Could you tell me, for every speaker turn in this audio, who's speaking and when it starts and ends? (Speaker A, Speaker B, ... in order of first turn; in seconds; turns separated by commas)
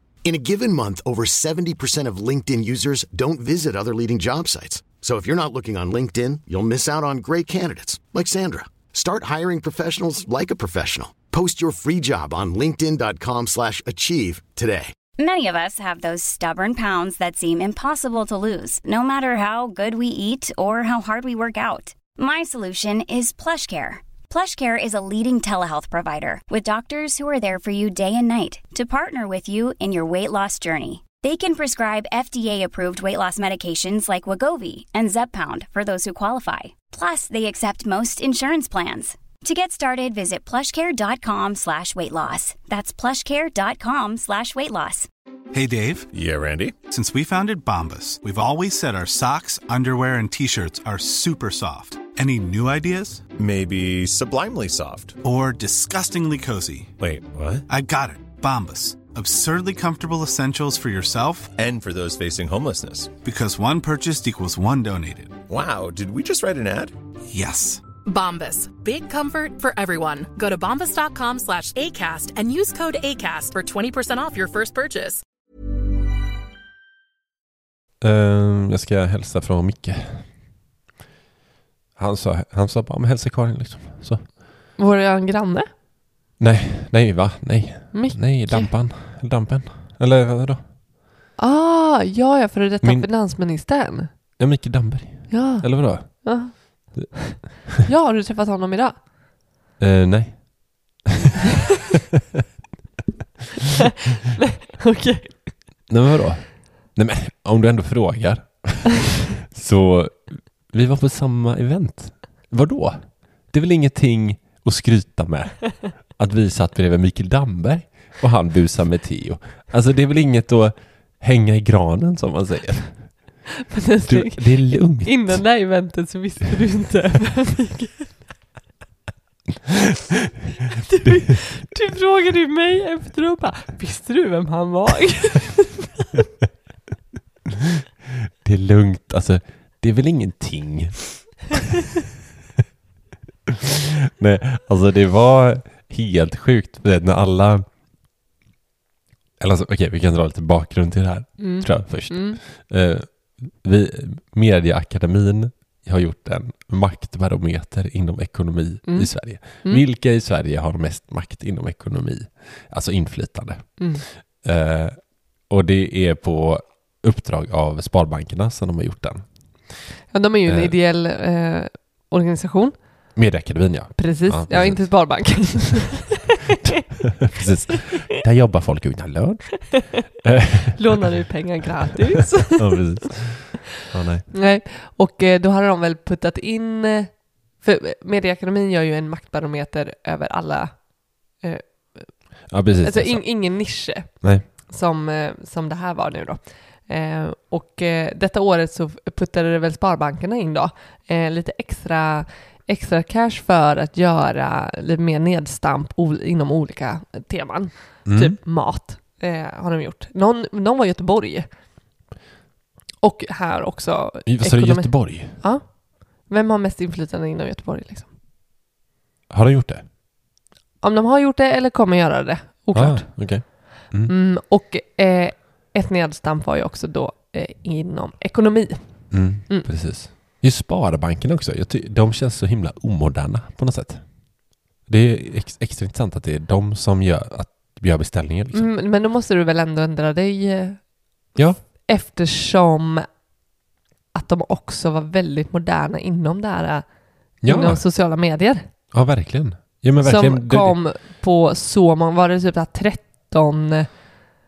Speaker A: 0.2-14.9, Speaker B: 15.2-45.1, Speaker C: 45.5-46.0, Speaker D: 46.1-46.8, Speaker C: 46.9-53.2, Speaker D: 53.4-55.2, Speaker C: 55.2-56.9, Speaker D: 57.0-57.6, Speaker C: 57.7-61.5, Speaker D: 61.6-63.2, Speaker C: 63.2-65.4, Speaker D: 65.5-66.9, Speaker C: 67.3-67.8, Speaker E: 68.0-75.2, Speaker F: 78.0-80.2, Speaker F: 82.0-84.2, Speaker G: 84.8-85.7, Speaker F: 86.4-90.6, Speaker G: 87.9-88.7, Speaker G: 91.4-94.1, Speaker F: 92.8-93.1, Speaker F: 94.4-97.0, Speaker G: 95.3-99.0, Speaker F: 99.8-101.2, Speaker G: 104.3-105.5, Speaker F: 105.9-122.9, Speaker G: 123.7-128.1, Speaker F: 124.0-125.4, Speaker G: 130.8-136.1, Speaker F: 131.0-131.3, Speaker F: 137.6-141.6, Speaker F: 143.5-147.6, Speaker F: 149.4-163.8, Speaker G: 151.4-152.4, Speaker G: 158.8-159.8, Speaker G: 163.8-164.0, Speaker F: 164.4-165.0, Speaker F: 165.5-169.2, Speaker G: 170.1-172.7, Speaker F: 170.4-170.7, Speaker F: 173.2-175.4, Speaker G: 174.0-176.8, Speaker F: 177.2-181.1, Speaker G: 177.7-178.0, Speaker G: 180.8-182.8, Speaker F: 182.5-184.3, Speaker G: 184.3-192.2, Speaker F: 192.5-194.4, Speaker G: 192.8-211.5, Speaker F: 208.0-208.4, Speaker G: 213.0-215.6, Speaker F: 214.2-215.3, Speaker G: 216.2-218.1, Speaker F: 219.3-219.8, Speaker G: 220.8-223.1, Speaker F: 222.7-224.1, Speaker G: 224.1-229.7, Speaker F: 229.1-234.0, Speaker F: 234.9-238.7, Speaker G: 238.5-240.8, Speaker G: 241.8-243.1, Speaker G: 244.1-246.8, Speaker F: 247.4-247.8, Speaker G: 247.4-248.6, Speaker F: 248.9-250.8, Speaker G: 250.0-253.9